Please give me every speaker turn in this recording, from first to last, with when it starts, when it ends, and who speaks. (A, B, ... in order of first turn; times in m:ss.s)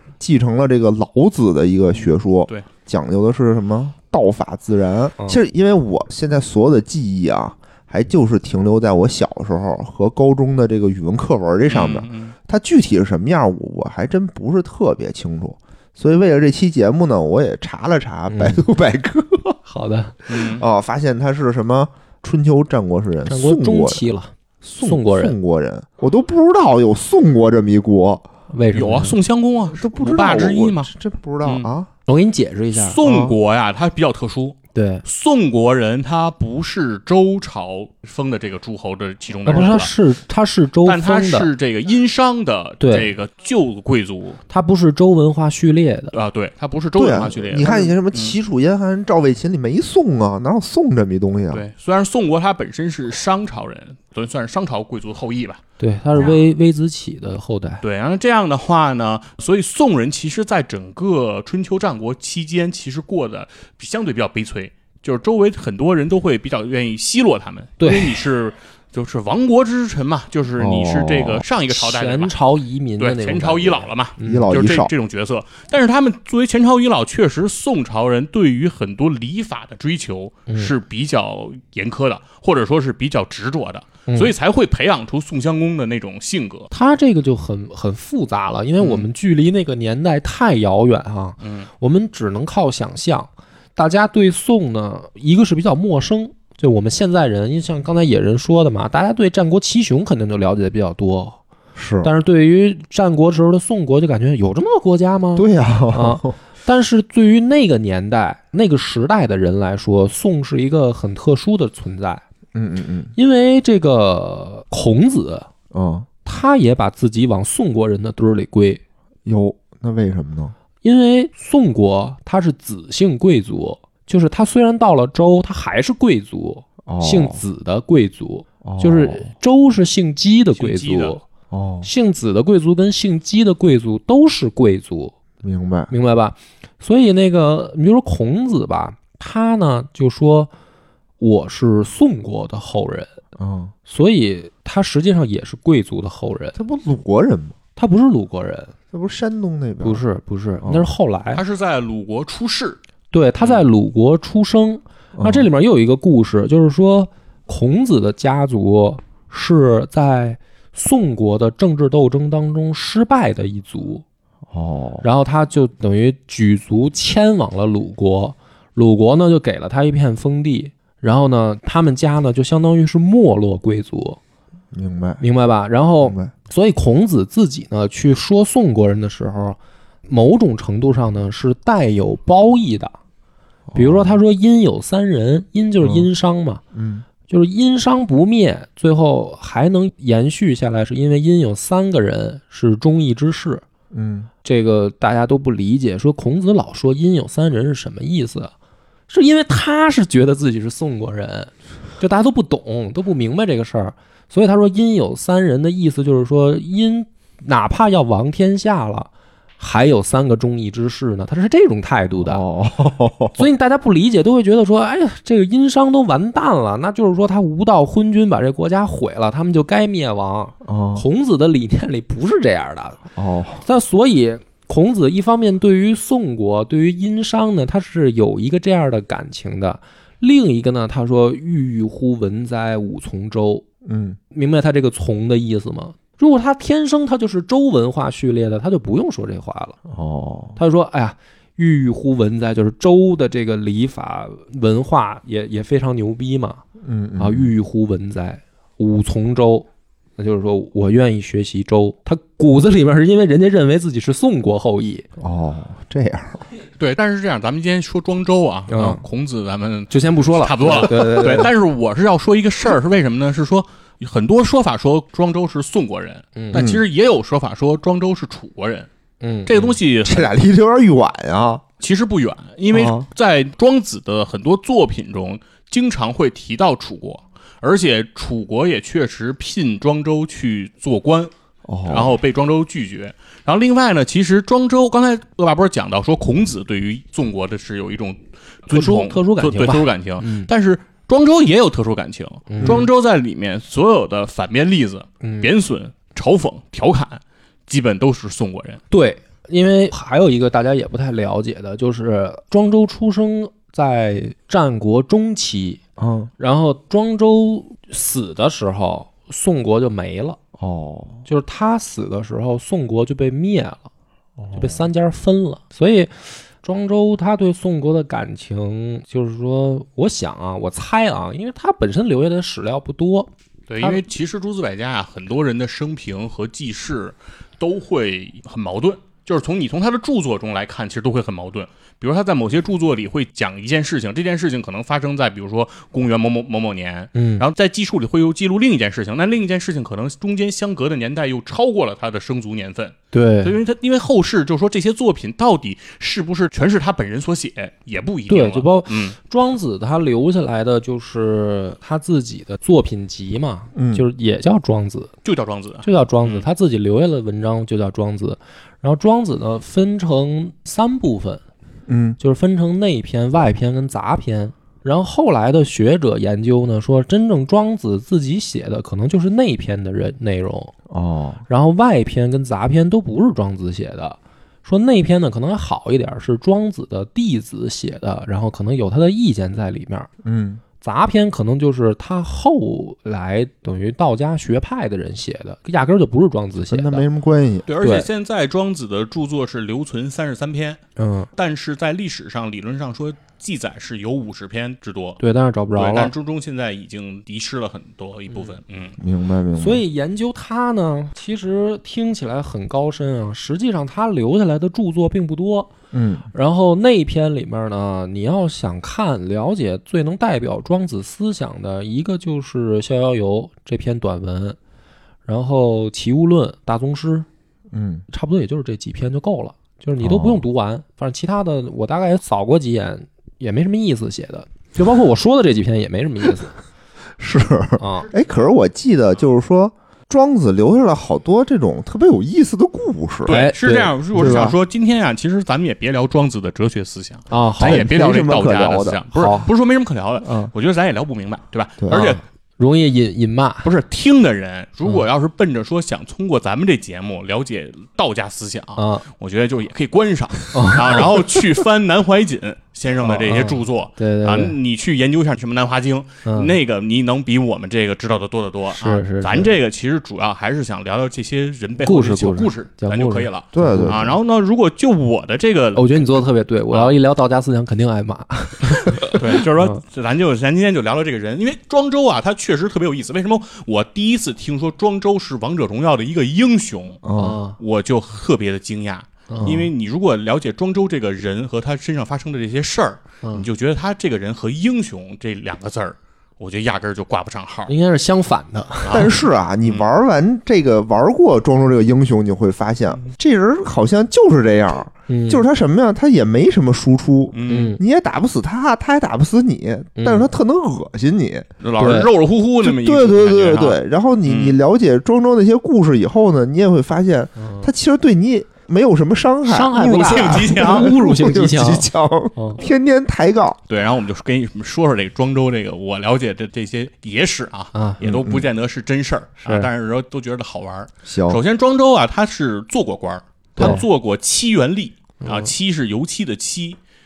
0:00.2-0:19.6 A
0:11.7-0:12.4 B
0:18.3-0:18.6 C
0:19.6-0:20.3 C
0:20.3-0:20.6 B
0:20.4-0:24.0 A
0:23.3-0:25.4 C
0:24.6-0:28.2 A
0:28.5-0:29.2 C
0:28.7-0:30.9 B
0:29.7-0:31.9 A
0:31.4-0:31.7 B
0:32.1-0:33.0 C
0:32.8-0:39.9 B
0:33.0-0:33.3 A
0:34.7-0:35.0 C
0:39.4-0:41.5 C
0:40.8-0:44.4 B
0:42.8-0:43.1 C
0:44.5-0:46.1 C
0:46.1-0:48.4 B
0:47.0-0:51.6 A
0:51.5-0:55.6 B
0:55.8-0:57.8 C
0:57.8-1:12.4 B
1:07.8-1:08.2 C
1:10.6-1:11.4 A
1:11.7-1:14.5 C
1:13.0-1:26.7 B
1:14.2-1:14.9 A
1:20.5-1:20.7 C
1:24.1-1:24.3 C
1:26.7-1:41.4 C
1:28.8-1:29.1 B
1:31.4-1:31.7 B
1:41.8-1:42.1 A
1:42.0-1:52.2 C
1:45.4-1:46.4 A
1:52.5-1:53.1 A
1:53.2-1:55.5 C
1:55.7-1:56.1 A
1:56.2-1:58.8 C
1:59.3-2:00.5 A
2:00.8-2:11.2 C
2:06.9-2:07.4 A
2:08.6-2:09.3 A
2:10.6-2:11.2 B
2:11.5-2:11.9 A
2:11.8-2:15.1 C
2:15.4-2:15.9 A
2:15.9-2:20.5 C
2:21.2-2:23.1 C
2:23.4-2:23.7 A
2:23.9-2:26.6 C
2:26.6-2:27.6 A
2:27.8-2:28.7 C
2:28.9-2:30.0 A
2:29.8-2:31.4 C
2:30.6-2:30.9 A
2:31.3-2:32.8 B
2:33.1-2:44.0 C
2:35.1-2:35.5 A
2:44.5-2:45.1 A
2:45.0-2:54.2 C
2:54.7-2:55.2 A
2:55.2-3:03.0 C
2:56.0-2:56.3 A
3:03.7-3:04.2 A
3:03.8-3:06.6 C
3:05.8-3:06.1 A
3:06.7-3:07.1 A
3:07.3-3:13.6 C
3:13.9-3:14.3 A
3:14.4-3:18.5 C
3:19.1-3:32.4 C
3:32.2-3:33.4 A
3:33.4-3:43.0 C
3:40.6-3:41.0 A
3:43.1-3:43.6 A
3:43.6-3:53.6 C
3:53.8-3:54.2 A
3:54.3-3:59.8 C
3:59.9-4:00.6 A
4:00.6-4:06.6 C
4:06.8-4:07.5 A
4:07.2-4:09.6 C
4:10.2-4:15.1 C
4:15.2-4:16.4 A
4:16.8-4:28.9 B
4:18.7-4:19.0 C
4:19.9-4:21.5 C
4:26.4-4:26.6 C
4:26.5-4:26.8 A
4:29.2-4:29.7 C
4:29.5-4:30.3 B
4:30.0-4:31.6 A
4:31.8-4:41.3 B
4:32.7-4:33.1 A
4:41.6-4:42.2 A
4:41.9-4:58.8 B
4:48.7-4:50.5 C
4:52.5-4:52.9 C
4:55.2-4:55.5 C
4:58.9-5:05.8 C
5:06.0-5:06.3 A
5:06.4-5:10.4 C
5:10.6-5:11.2 A
5:11.3-5:13.9 C
5:14.4-5:14.9 A
5:14.5-5:24.0 C
5:23.7-5:49.2 B
5:37.1-5:37.4 C
5:43.1-5:43.6 C
5:48.3-5:55.1 C
5:53.8-5:54.0 A
5:55.2-5:56.5 B
5:55.8-6:01.4 C
6:01.9-6:02.2 A
6:02.2-6:10.7 C
6:10.9-6:11.4 A
6:11.5-6:20.1 C
6:20.2-6:20.6 A
6:20.8-6:27.1 C
6:26.7-6:27.7 A
6:27.7-6:30.8 B
6:27.8-6:28.1 C
6:31.0-6:31.3 C
6:31.3-6:35.2 B
6:35.2-6:36.1 C
6:35.8-6:39.0 B
6:39.0-6:39.8 A
6:39.6-6:45.7 C
6:45.9-6:46.3 A
6:46.3-6:54.6 C
6:55.3-6:57.3 C
6:57.7-6:58.0 A
6:58.1-7:06.6 C
7:00.0-7:00.4 A
7:07.2-7:13.4 A
7:07.8-7:08.1 C
7:13.3-7:22.2 B
7:13.3-7:14.5 C
7:14.1-7:14.6 A
7:17.3-7:17.9 C
7:17.6-7:19.0 A
7:19.1-7:19.5 C
7:20.2-7:20.5 A
7:21.8-7:22.1 A
7:21.9-7:23.7 C
7:23.6-7:46.9 B
7:28.8-7:29.0 C
7:30.5-7:31.1 C
7:33.0-7:34.6 C
7:36.2-7:36.6 C
7:38.7-7:39.5 C
7:41.8-7:44.1 C
7:43.5-7:44.2 A
7:45.8-7:49.8 C
7:49.0-7:57.0 B
7:57.0-7:57.4 A
7:57.2-7:57.6 C
7:57.6-8:07.7 B
7:59.3-7:59.7 C
8:07.7-8:09.1 C
8:08.8-8:09.9 B
8:08.9-8:21.5 A
8:15.1-8:15.4 C
8:17.3-8:17.8 B
8:17.5-8:17.8 C
8:20.0-8:20.3 C
8:21.6-8:24.6 B
8:21.8-8:22.1 C
8:22.6-8:33.6 A
8:27.4-8:27.7 C
8:29.5-8:32.6 C
8:29.9-8:31.0 B
8:33.7-8:46.8 B
8:37.7-8:38.0 C
8:38.0-8:38.5 A
8:39.4-8:39.7 C
8:41.1-8:41.4 A
8:43.6-8:43.8 C
8:45.2-8:45.5 C